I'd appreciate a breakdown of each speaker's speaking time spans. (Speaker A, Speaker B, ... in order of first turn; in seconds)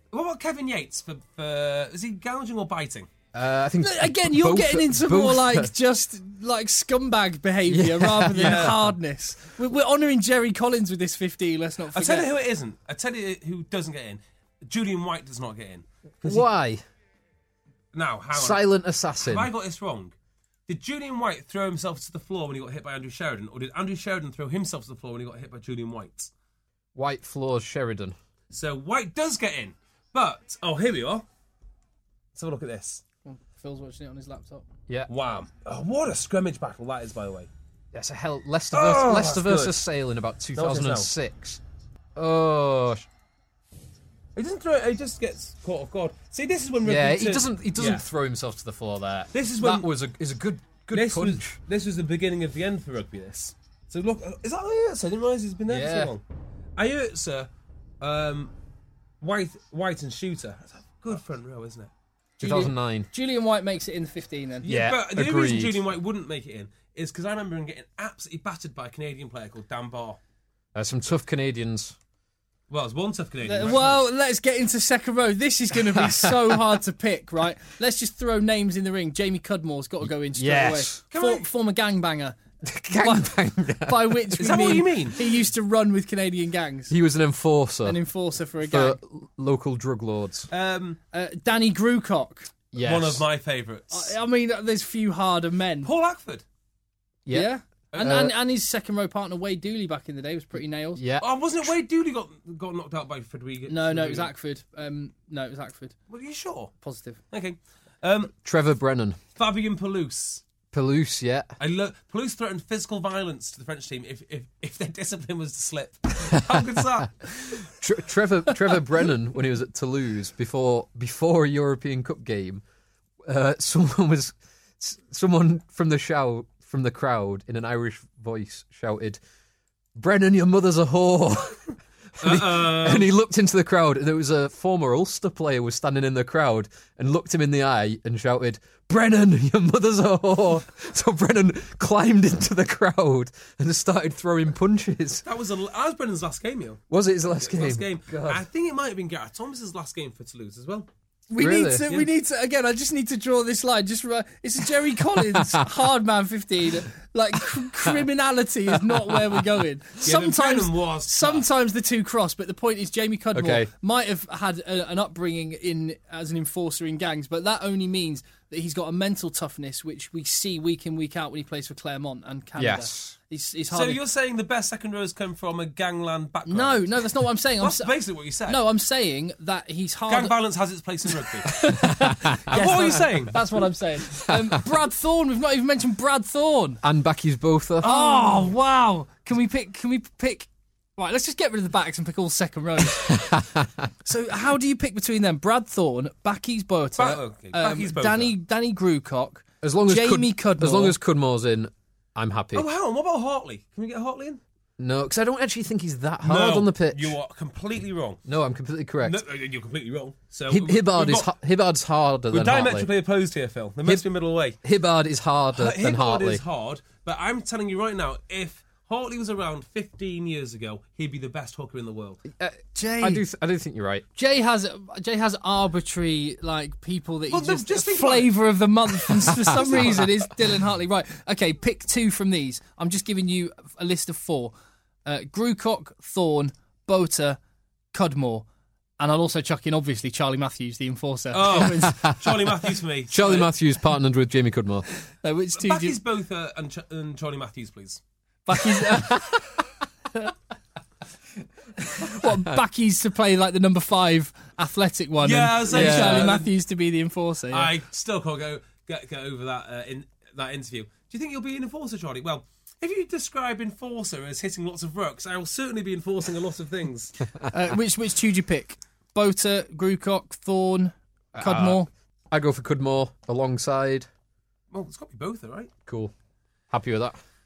Speaker A: 0.1-3.1, 8.4-8.7, 11.9-16.5, 17.9-18.7, 19.2-20.1, 20.7-26.3, 28.5-31.2, 32.4-33.0, 35.1-37.5, 38.7-39.8, 40.5-41.1, 44.4-48.0, 49.3-49.9, 50.9-56.2, 56.8-57.5, 58.0-58.5, 59.2-61.9, 64.6-70.2, 72.7-74.0, 81.1-81.5, 84.4-85.2, 90.5-91.0, 92.8-94.1, 95.8-96.4, 97.9-98.2, 101.2-104.3, 106.1-106.7, 107.3-108.3, 109.4-110.4, 111.6-117.7, 132.2-133.1, 145.2-146.8, 147.4-150.9, 160.0-161.4, 173.7-176.9, 177.6-178.6, 180.1-181.5, 182.5-183.4, 188.0-188.3, 197.0-198.3, 202.5-204.4, 206.2-208.2, 209.0-211.3, 212.3-214.6, 215.5-222.2, 227.3-228.5, 229.1-230.1, 241.3-243.5, 245.6-248.0, 255.2-256.5, 257.5-267.1, 274.7-275.7
Speaker B: 3.3-5.7, 7.7-8.9, 16.2-16.8, 18.3-19.5, 26.9-28.2, 37.9-41.6, 42.2-43.0, 46.8-51.6, 55.7-56.2, 62.4-63.1, 64.7-65.8, 70.7-72.0, 75.7-76.8, 80.0-81.0, 82.6-84.6, 86.9-88.0, 88.6-90.5, 92.7-93.2, 97.3-98.3, 101.0-101.3, 108.4-109.2, 110.7-111.5, 117.6-122.6, 123.2-129.2, 129.9-145.2, 146.9-148.4, 151.4-151.9, 155.1-155.7, 158.7-159.4, 163.3-163.7, 172.6-173.2, 181.7-183.0, 184.1-184.4, 186.8-188.4, 193.0-193.7, 199.6-202.7, 204.8-207.2, 208.3-209.2, 210.5-212.9, 214.6-216.4, 222.3-224.1, 229.6-229.9, 243.1-244.9, 248.7-249.4, 252.0-252.5, 255.7-256.4, 271.4-274.1, 275.9-276.1, 276.7-277.2
Speaker C: 3.8-12.3, 33.3-34.6, 62.4-64.7, 73.5-82.4, 82.9-86.9, 87.8-89.0, 91.1-92.5, 93.9-95.9, 97.3-101.0, 103.7-106.0, 106.8-107.2, 151.3-174.0, 176.5-177.9, 178.5-180.4, 181.4-186.8, 187.8-193.2, 194.1-200.9, 222.7-223.3, 224.2-234.5, 235.1-237.4, 237.9-238.4, 239.0-242.0, 245.2-246.0, 248.5-249.3, 252.0-257.7, 267.5-271.9